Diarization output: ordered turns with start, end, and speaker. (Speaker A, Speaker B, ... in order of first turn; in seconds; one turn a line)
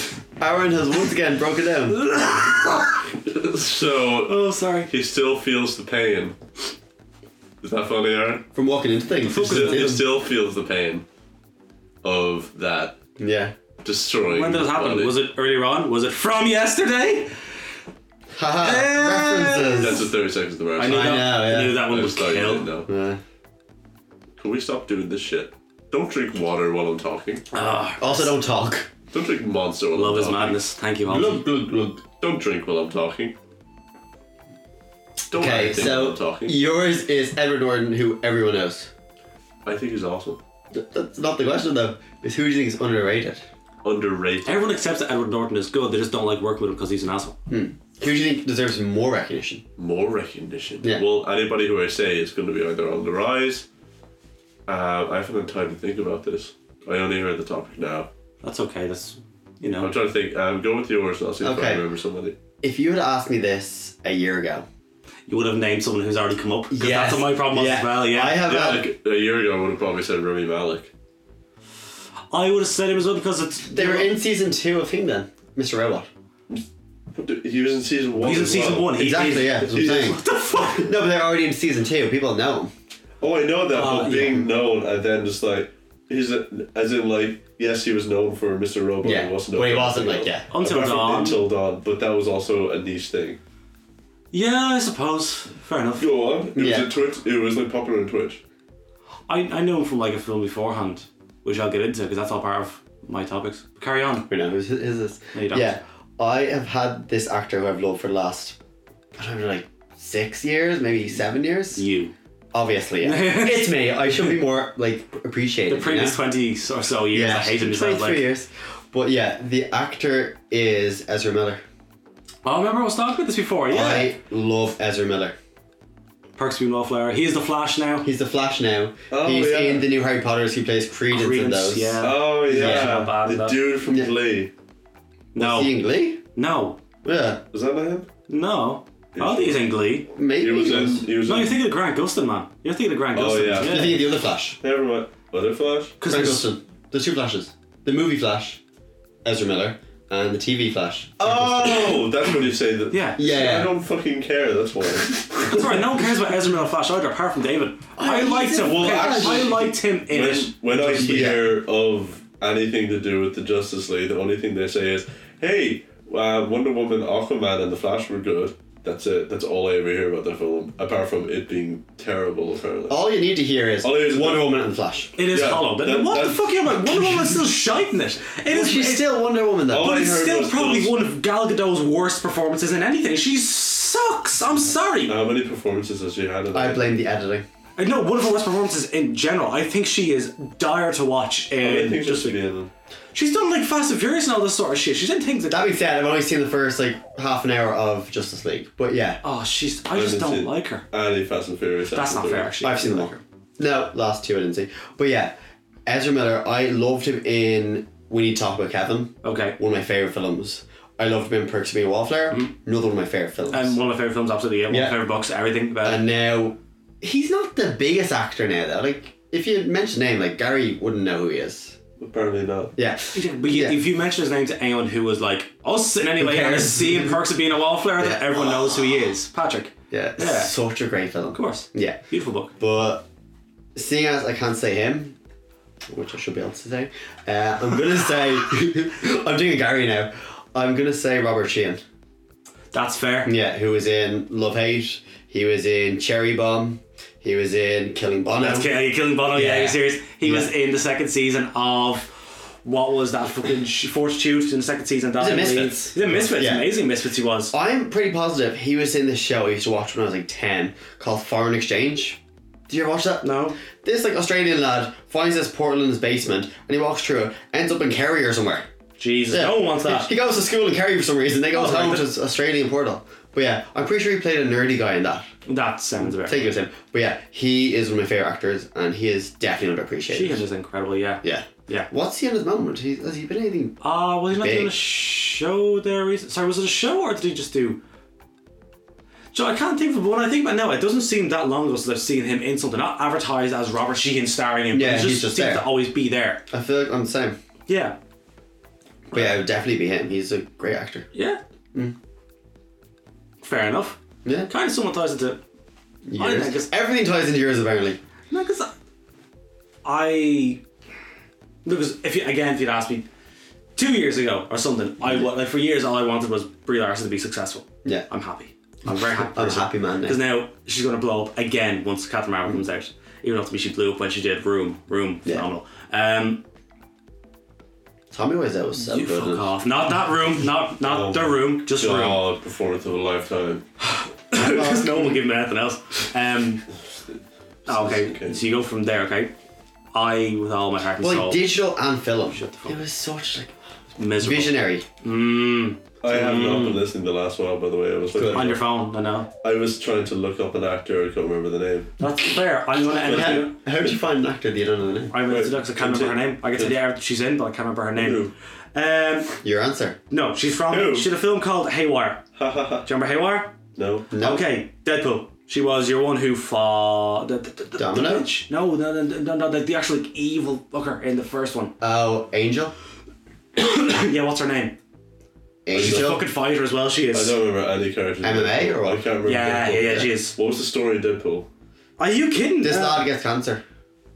Speaker A: 0.4-2.0
Speaker B: 1.9-3.0
Speaker C: 3.2-6.4
Speaker B: 4.2-4.9
Speaker C: 7.6-8.4
Speaker A: 8.6-10.0
Speaker B: 9.3-9.8
Speaker C: 9.3-11.1
Speaker C: 12.0-13.0
Speaker A: 13.2-13.5
Speaker C: 13.8-15.2
Speaker B: 14.3-17.3
Speaker A: 18.4-20.1
Speaker B: 18.6-20.0
Speaker C: 19.8-22.9
Speaker B: 20.8-22.7
Speaker A: 20.8-21.8
Speaker A: 22.9-23.2
Speaker C: 24.4-27.5
Speaker B: 27.5-28.4
Speaker A: 28.0-28.9
Speaker C: 29.1-30.6
Speaker B: 29.9-31.4
Speaker A: 31.1-32.0
Speaker C: 32.2-33.3
Speaker C: 35.3-36.6
Speaker A: 35.4-38.9
Speaker C: 39.6-40.4
Speaker A: 40.7-43.4
Speaker C: 43.8-44.7
Speaker B: 44.5-47.4
Speaker A: 47.5-49.6
Speaker C: 49.8-53.7
Speaker C: 54.7-58.1
Speaker B: 58.4-60.0
Speaker C: 59.6-62.4
Speaker A: 61.4-61.8
Speaker A: 62.6-64.7
Speaker B: 65.3-68.4
Speaker A: 66.7-68.9
Speaker C: 68.5-70.9
Speaker B: 72.3-74.1
Speaker A: 73.7-76.1
Speaker C: 76.5-78.9
Speaker B: 78.2-80.9
Speaker A: 78.9-80.2
Speaker C: 79.7-80.8
Speaker A: 80.8-82.7
Speaker C: 83.2-93.4
Speaker B: 83.7-84.5
Speaker A: 89.0-90.5
Speaker B: 90.5-91.4
Speaker B: 94.3-96.1
Speaker C: 96.0-98.4
Speaker A: 96.5-96.9
Speaker B: 99.3-104.3
Speaker A: 104.3-108.6
Speaker B: 105.3-105.8
Speaker A: 109.2-111.8
Speaker B: 111.8-112.1
Speaker A: 112.5-116.2
Speaker B: 113.0-113.8
Speaker B: 115.7-118.2
Speaker A: 117.1-121.6
Speaker B: 122.5-124.2
Speaker A: 123.7-125.4
Speaker B: 126.4-128.1
Speaker A: 128.0-133.1
Speaker C: 129.1-129.9
Speaker B: 131.1-133.6
Speaker C: 132.0-134.5
Speaker A: 133.8-134.1
Speaker B: 135.3-135.8
Speaker A: 135.4-136.2
Speaker B: 136.3-136.8
Speaker A: 137.0-137.4
Speaker C: 137.5-138.1
Speaker B: 138.3-140.1
Speaker C: 139.2-139.7
Speaker A: 140.1-141.1
Speaker C: 140.4-141.6
Speaker B: 141.2-144.0
Speaker C: 143.1-144.1
Speaker A: 143.6-144.6
Speaker C: 144.6-146.0
Speaker B: 146.0-146.5
Speaker A: 146.0-148.6
Speaker A: 149.2-152.0
Speaker C: 151.2-155.7
Speaker B: 152.9-153.2
Speaker A: 153.2-153.7
Speaker B: 155.5-160.5
Speaker A: 158.0-159.6
Speaker C: 158.6-173.0
Speaker A: 160.7-161.5
Speaker A: 172.9-175.1
Speaker C: 173.8-174.5
Speaker B: 175.2-179.1
Speaker C: 175.3-177.3
Speaker A: 178.5-179.9
Speaker C: 179.7-181.0
Speaker B: 179.8-185.2
Speaker C: 185.1-187.0
Speaker A: 186.5-187.4
Speaker B: 187.8-192.4
Speaker C: 191.6-192.7
Speaker B: 193.1-195.7
Speaker A: 195.5-199.2
Speaker B: 199.2-200.8
Speaker C: 199.9-202.5
Speaker B: 201.9-203.2
Speaker A: 202.6-205.3
Speaker A: 205.9-213.8
Speaker B: 209.2-209.6
Speaker B: 213.5-216.1
Speaker A: 214.7-215.0
Speaker A: 215.8-221.8
Speaker C: 222.0-222.8
Speaker A: 222.8-223.8
Speaker B: 223.1-230.5
Speaker A: 226.2-227.2
Speaker A: 228.0-229.1
Speaker A: 229.9-232.0
Speaker B: 231.3-232.5
Speaker A: 232.6-233.1
Speaker A: 233.8-235.2
Speaker A: 235.9-241.8
Speaker B: 242.7-243.3
Speaker A: 243.2-248.8
Speaker B: 248.3-257.5
Speaker A: 249.3-250.5
Speaker A: 255.2-256.7
Speaker A: 257.5-268.7
Speaker B: 263.2-263.6
Speaker B: 269.0-270.1
Speaker A: 269.3-275.2
Speaker B: 271.5-272.1
Speaker B: 275.5-276.5
Speaker A: 276.0-280.4
Speaker B: 280.1-281.9
Speaker A: 281.2-283.8
Speaker B: 283.8-287.8
Speaker A: 284.3-284.7
Speaker B: 289.3-296.4
Speaker A: 294.7-295.7
Speaker A: 296.5-297.4
Speaker B: 297.7-298.0
Speaker A: 299.1-301.1
Speaker B: 301.1-301.4
Speaker B: 303.4-305.4
Speaker A: 304.2-304.5
Speaker A: 306.1-308.0
Speaker B: 306.2-306.7
Speaker B: 308.3-308.7
Speaker B: 309.9-310.6
Speaker B: 311.6-313.1
Speaker B: 313.8-326.4
Speaker A: 319.3-320.2
Speaker A: 328.1-329.5
Speaker B: 328.8-332.2
Speaker C: 330.8-333.6
Speaker B: 333.9-336.6
Speaker A: 334.3-335.2
Speaker C: 337.6-338.4
Speaker B: 337.7-339.3
Speaker B: 339.9-341.4
Speaker A: 341.0-343.5
Speaker B: 342.3-342.8
Speaker B: 344.0-346.8
Speaker A: 344.2-344.9
Speaker C: 346.0-348.6
Speaker A: 348.1-348.5
Speaker B: 348.3-349.3
Speaker C: 349.4-352.0
Speaker B: 352.0-353.6
Speaker C: 352.9-353.6
Speaker A: 353.1-355.1
Speaker B: 355.1-359.4
Speaker C: 355.3-356.8
Speaker C: 358.0-358.3
Speaker A: 359.4-360.0
Speaker B: 360.1-362.2
Speaker C: 360.7-361.1
Speaker C: 362.4-362.9
Speaker B: 362.9-363.6
Speaker C: 363.8-364.1
Speaker A: 364.1-364.4
Speaker B: 364.2-371.7
Speaker A: 367.8-368.3
Speaker A: 371.8-372.7
Speaker B: 373.6-374.8
Speaker A: 375.6-376.2
Speaker B: 375.7-377.4
Speaker C: 375.8-376.1
Speaker C: 377.1-381.5
Speaker A: 378.2-379.1
Speaker B: 379.2-380.4
Speaker B: 382.0-383.1
Speaker A: 382.6-383.6